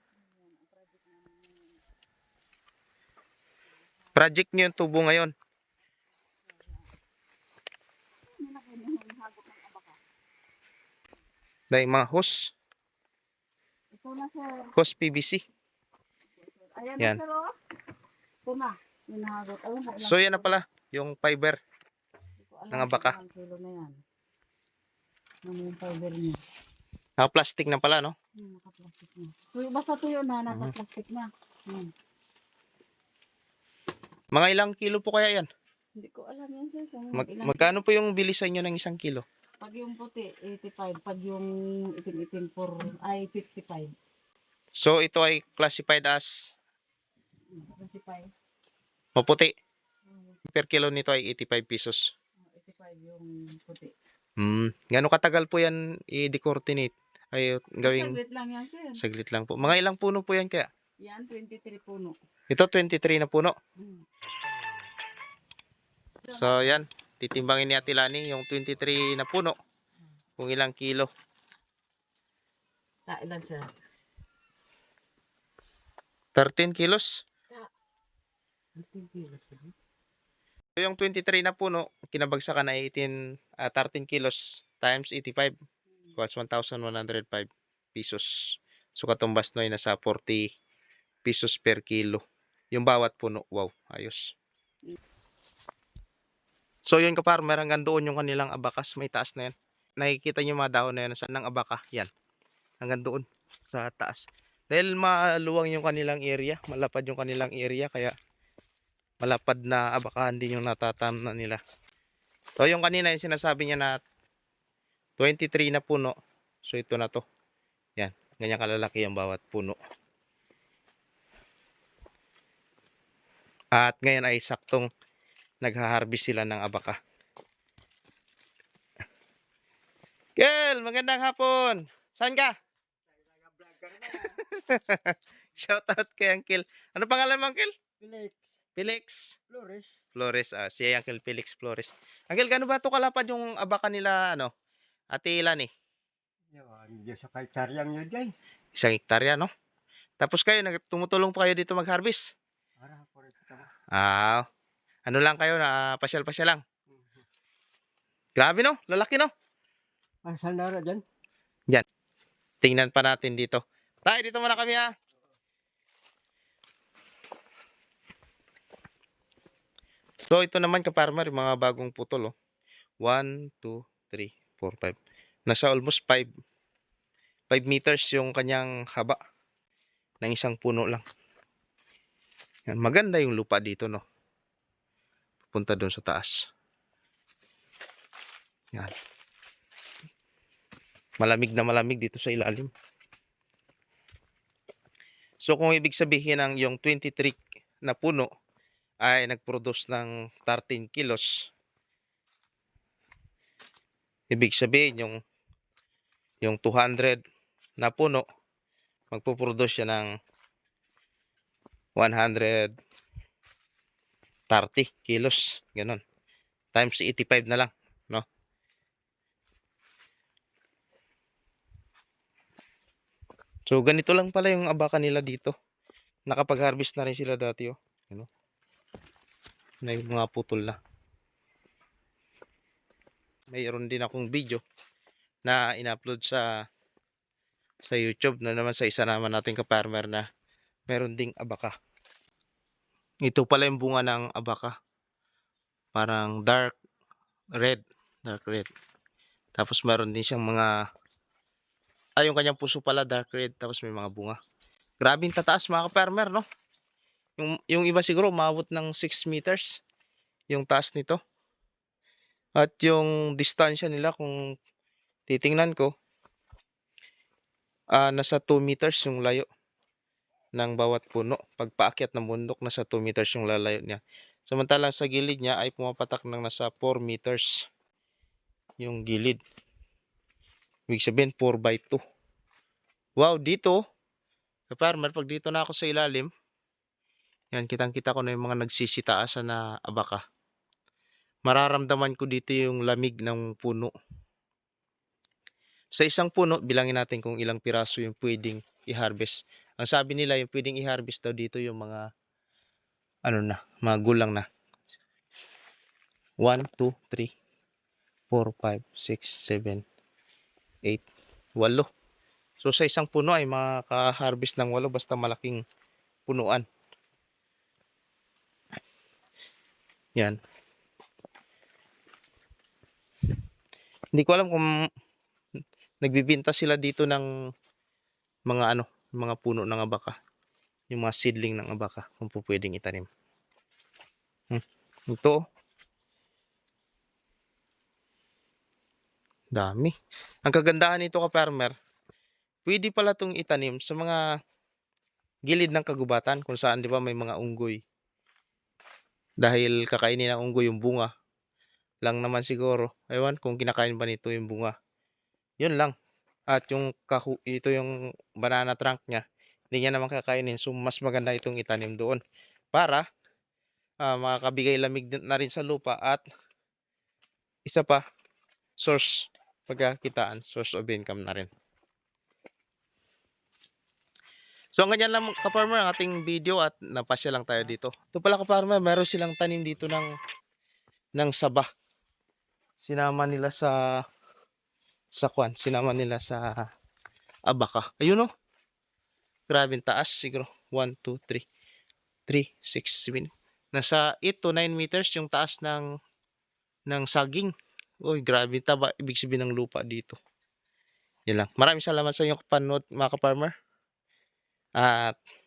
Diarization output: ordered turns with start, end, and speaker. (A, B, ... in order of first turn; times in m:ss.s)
0:00.2-0:01.8 A
0:04.2-0:05.3 B
0:06.5-0:06.9 A
0:08.3-0:10.0 A
0:11.7-0:12.5 B
0:13.9-0:14.7 A
0:14.8-0:15.4 B
0:16.4-0:17.5 A
0:18.5-0:20.5 A
0:20.0-0:21.6 B
0:22.4-0:24.0 A
0:22.7-0:23.2 B
0:25.4-0:26.4 A
0:27.2-0:28.1 B
0:28.4-0:31.9 A
0:30.5-0:30.8 B
0:34.3-0:35.5 B
0:36.0-0:37.8 A
0:37.1-0:39.2 B
0:39.6-0:41.5 A
0:42.0-0:43.9 A
0:44.7-0:46.5 B
0:47.5-0:48.3 A
0:49.2-0:49.5 B
0:50.5-0:52.0 B
0:52.5-0:53.9 A
0:54.4-0:58.2 B
0:57.8-0:59.0 A
0:59.0-1:00.7 B
1:01.0-1:02.2 A
1:02.5-1:03.6 B
1:06.3-1:06.8 A
1:06.3-1:09.6 B
1:10.4-1:11.1 B
1:13.1-1:13.6 A
1:16.4-1:17.2 B
1:18.8-1:19.7 A
1:20.8-1:25.5 B
1:26.2-1:30.5 B
1:31.2-1:34.3 B
1:36.9-1:42.1 B
1:42.8-1:48.1 B
1:49.2-1:51.6 B
1:52.6-1:54.0 B
1:55.2-1:57.2 B
1:58.0-1:59.8 B
2:03.7-2:04.9 B
2:05.6-2:07.0 B
2:10.4-2:12.5 B
2:13.3-2:14.4 C
2:14.1-2:17.7 B
2:18.0-2:18.4 C
2:18.8-2:19.4 B
2:19.5-2:19.9 C
2:20.1-2:24.5 B
2:25.1-2:25.7 B
2:26.5-2:28.4 C
2:28.8-2:29.5 B
2:30.2-2:32.3 B
2:32.8-2:33.7 C
2:33.9-2:34.4 B
2:35.1-2:36.6 B
2:38.4-2:39.3 B
2:40.2-2:41.0 C
2:42.6-2:44.9 B
2:50.2-2:52.3 B
2:53.0-2:56.3 B
2:57.5-2:59.2 B
3:00.2-3:01.0 B
3:02.7-3:04.0 B
3:05.5-3:06.5 B
3:11.2-3:12.7 B
3:15.4-3:18.3 B
3:19.0-3:21.5 B
3:24.3-3:25.2 B
3:26.4-3:27.2 B
3:27.8-3:28.2 B
3:29.1-3:30.1 B
3:32.0-3:32.7 B
3:34.5-3:36.0 B
3:36.7-3:38.2 B
3:43.7-3:45.5 B
3:46.3-3:48.3 B
3:49.8-3:50.8 B
3:53.5-3:54.6 B
3:55.4-3:56.5 B
3:57.8-4:00.2 B
4:00.9-4:01.7 B
4:03.2-4:04.7 B
4:06.0-4:06.8 B
4:07.6-4:08.7 B
4:09.6-4:10.7 B
4:12.2-4:14.4 B
4:15.0-4:16.4 B
4:17.4-4:19.8 B
4:20.5-4:21.2 B
4:22.6-4:24.4 B
4:25.3-4:25.9 B
4:27.9-4:29.5 B
4:30.5-4:37.7 B
4:38.8-4:39.4 B
4:40.9-4:42.0 B
4:43.2-4:43.8 B
4:44.7-4:46.3 B
4:47.5-4:50.2 B
4:51.4-4:53.9 B
4:55.9-5:02.0 B
5:03.2-5:04.4 B
5:06.4-5:07.3 B
5:08.3-5:09.8 B
5:11.6-5:11.9 B
5:12.6-5:15.6 B
5:16.3-5:16.6 B
5:24.1-5:24.7 B
5:26.0-5:27.3 B
5:28.5-5:30.1 B
5:30.9-5:33.1 B
5:34.5-5:35.4 B
5:39.5-5:41.7 B
5:42.7-5:44.2 B
5:45.5-5:47.8 B
5:49.4-5:51.1 B
5:52.0-5:54.7 B
5:55.6-5:55.9 B
5:56.5-6:02.2 B
6:02.7-6:03.0 B
6:04.0-6:06.2 B
6:07.7-6:08.0 B
6:08.8-6:11.5 B
6:14.8-6:20.1 B
6:21.2-6:21.7 B
6:22.8-6:24.0 B
6:25.1-6:26.7 B
6:27.5-6:28.3 B
6:29.5-6:31.4 B
6:32.3-6:35.8 B
6:36.9-6:40.2 B
6:41.3-6:43.5 B
6:44.8-6:45.2 B